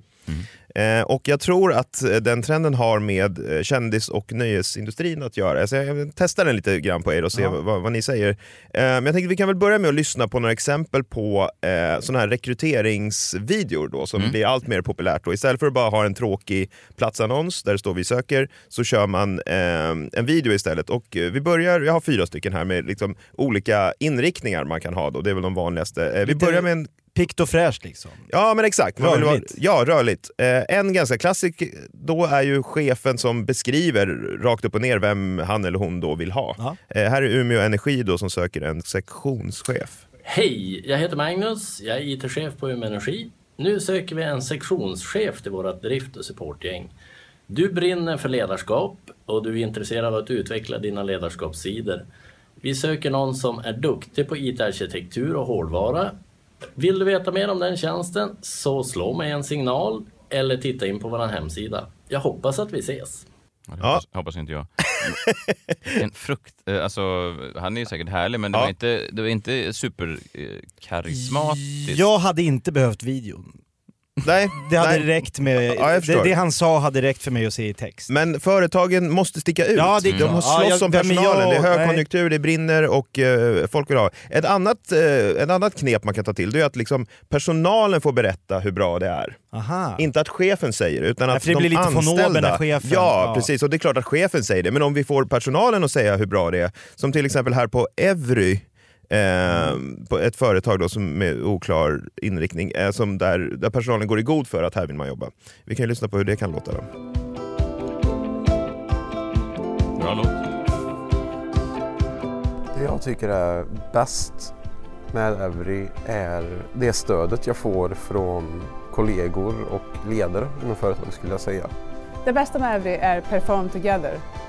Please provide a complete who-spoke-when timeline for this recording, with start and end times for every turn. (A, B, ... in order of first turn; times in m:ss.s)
0:00.7-0:26.9 A
0:26.2-0:28.3 B
0:28.3-0:40.0 A
0:29.0-0:29.6 B
0:40.2-0:46.9 C
0:47.5-0:52.0 C
0:52.6-0:56.1 C
0:56.8-1:03.2 C
1:03.7-1:05.2 D
1:05.9-1:12.0 D
1:11.1-1:13.5 B
1:14.2-1:16.4 A
1:14.6-1:18.1 B
1:18.1-1:29.4 A
1:19.8-1:22.0 B
1:29.5-1:30.0 B
1:30.0-1:46.8 A
1:31.3-1:33.5 B
1:50.0-1:50.4 D
1:52.7-1:54.5 E
1:55.1-2:01.7 E
2:02.2-2:04.2 F